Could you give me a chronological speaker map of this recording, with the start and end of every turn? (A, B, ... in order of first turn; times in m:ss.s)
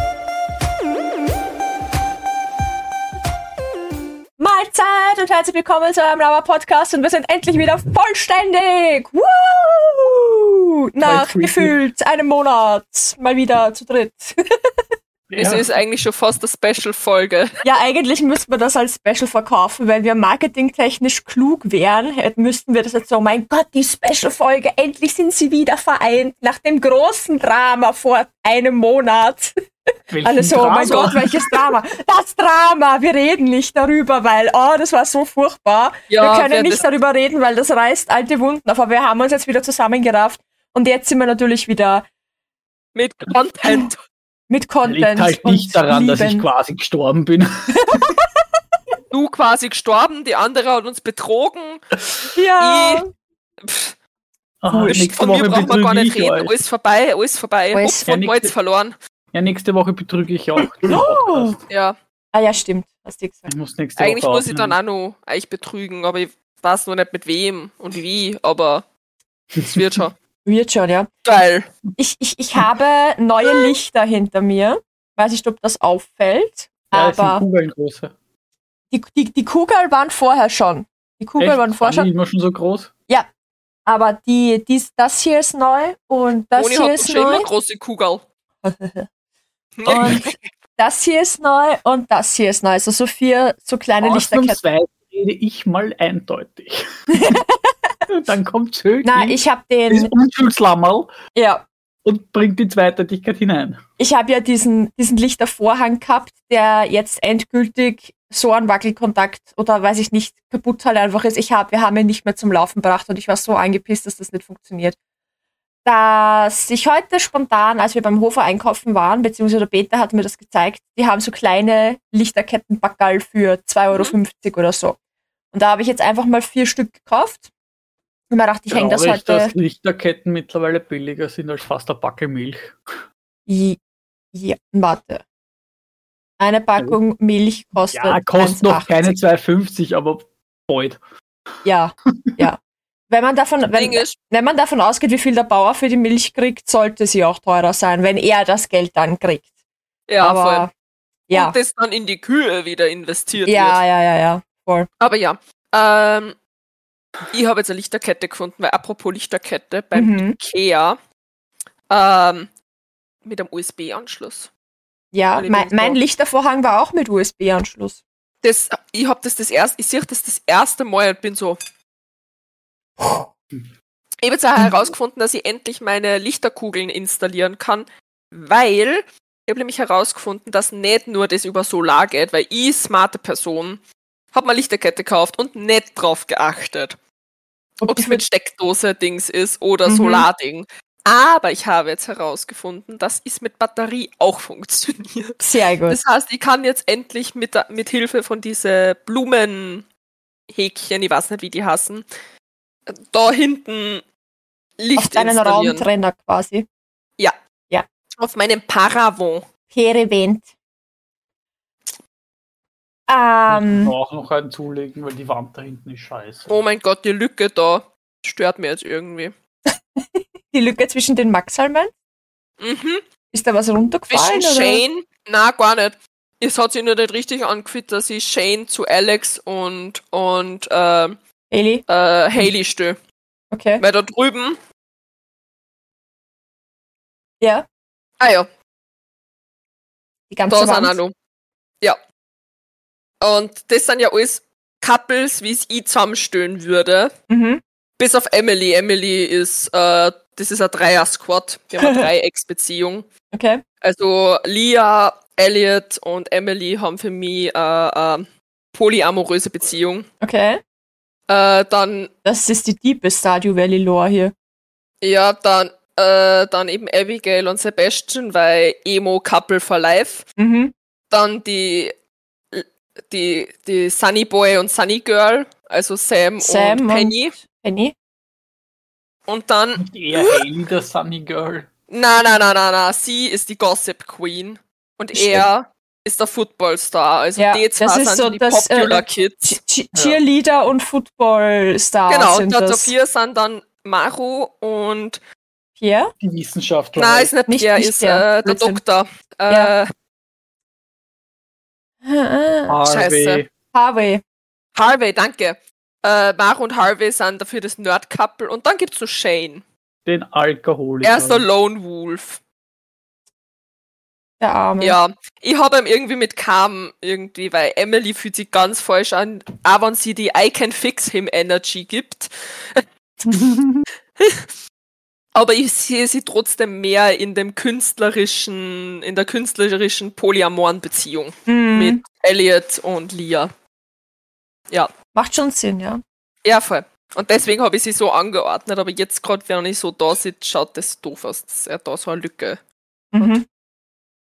0:04.4-0:14.3 A
0:11.0-0:11.8 B
0:15.3-0:15.6 B
0:15.4-0:17.5 C
0:17.6-0:29.5 A
0:30.1-0:31.5 B
0:30.2-0:42.0 A
0:30.9-0:31.1 C
0:36.1-0:36.8 C
0:43.0-0:44.0 C
0:44.5-0:46.5 A
0:44.8-0:48.0 B
0:47.7-0:48.1 A
0:49.1-0:51.8 C
0:52.3-0:53.1 A
0:52.6-0:53.0 C
0:53.6-0:54.0 C
0:54.6-0:56.6 B
0:54.7-0:55.1 A
0:55.1-0:59.0 C
0:57.7-0:58.1 A
0:58.1-0:58.5 B
0:59.3-1:01.6 B
1:00.9-1:01.6 A
1:01.7-1:02.0 C
1:02.3-1:03.5 A
1:03.5-1:04.8 B
1:04.0-1:08.9 C
1:09.6-1:09.8 B
1:09.6-1:10.1 C
1:10.4-1:11.1 A
1:11.2-1:11.7 C
1:12.0-1:17.4 A
1:16.9-1:18.1 B
1:18.9-1:22.1 A
1:21.4-1:22.9 B
1:23.9-1:27.4 A
1:26.6-1:28.2 C
1:28.6-1:29.1 A
1:29.8-1:30.4 C
1:29.9-1:34.6 A
1:34.0-1:37.4 B
1:37.1-1:38.0 A
1:38.1-1:41.1 B
1:39.0-1:40.1 A
1:41.3-1:41.7 A
1:42.0-1:43.8 B
1:44.0-1:55.0 A
1:55.8-2:05.0 A
2:03.9-2:04.2 C
2:05.5-2:07.5 A
2:08.3-2:09.6 A
2:08.7-2:12.8 B
2:13.5-2:13.8 A
2:14.3-2:15.2 A
2:16.4-2:19.2 A
2:17.9-2:21.0 B
2:21.6-2:29.5 A
2:22.2-2:22.5 B
2:23.8-2:24.2 C
2:30.1-2:30.7 C
2:30.2-2:30.7 A
2:31.3-2:31.6 A
2:31.3-2:33.8 C
2:33.5-2:34.9 A
2:35.0-2:36.4 C
2:37.3-2:41.0 C
2:39.9-2:40.4 A
2:41.9-2:42.5 C
2:43.2-2:44.5 C
2:45.1-2:48.0 A
2:45.4-2:46.0 C
2:48.4-2:51.6 C
2:54.2-3:03.8 C
3:04.3-3:07.0 C
3:07.8-3:19.8 C
3:07.8-3:08.2 A
3:09.8-3:10.3 A
3:15.4-3:16.0 A
3:20.5-3:22.1 C
3:22.9-3:24.0 C
3:24.8-3:25.8 C
3:25.0-3:26.7 A
3:28.2-3:29.4 C
3:29.7-3:30.5 A
3:33.1-3:33.9 A
3:33.5-3:36.5 B
3:36.5-3:39.3 C
3:39.7-3:41.9 A
3:42.6-3:43.0 C
3:43.3-3:44.8 A
3:44.1-3:51.2 C
3:51.5-3:51.8 A
3:51.9-3:53.0 C
3:53.5-3:53.8 A
3:53.8-3:54.6 C
3:57.4-3:57.7 A
3:58.2-3:58.5 C
4:00.3-4:00.9 A
4:00.5-4:01.1 C
4:03.2-4:07.1 C
4:07.3-4:07.6 A
4:08.0-4:13.1 C
4:11.8-4:12.1 A
4:13.3-4:13.6 A
4:13.8-4:20.1 C
4:20.2-4:20.6 A
4:21.3-4:22.1 C
4:22.2-4:24.3 A
4:25.0-4:30.3 C
4:30.4-4:30.7 A
4:31.1-4:31.9 C
4:32.5-4:37.4 C
4:36.4-4:37.9 A
4:39.3-4:39.8 C
4:39.8-4:41.7 B
4:41.9-4:49.6 C
4:45.1-4:45.4 A
4:47.4-4:52.9 A
4:49.9-4:50.2 B
4:52.1-4:55.2 C
4:55.8-4:56.1 A
4:56.2-4:57.3 B
4:57.0-4:59.9 C
4:57.5-4:58.8 A
5:02.0-5:02.8 A
5:02.7-5:03.5 B
5:02.9-5:03.4 C
5:03.7-5:04.2 A
5:04.8-5:09.6 C
5:10.1-5:11.4 B
5:11.0-5:12.4 C
5:14.4-5:15.0 A
5:14.8-5:22.8 C
5:24.2-5:24.5 C
5:25.4-5:33.5 C
5:31.5-5:32.0 A
5:35.1-5:36.0 A
5:36.4-5:42.6 C
5:43.1-5:43.4 A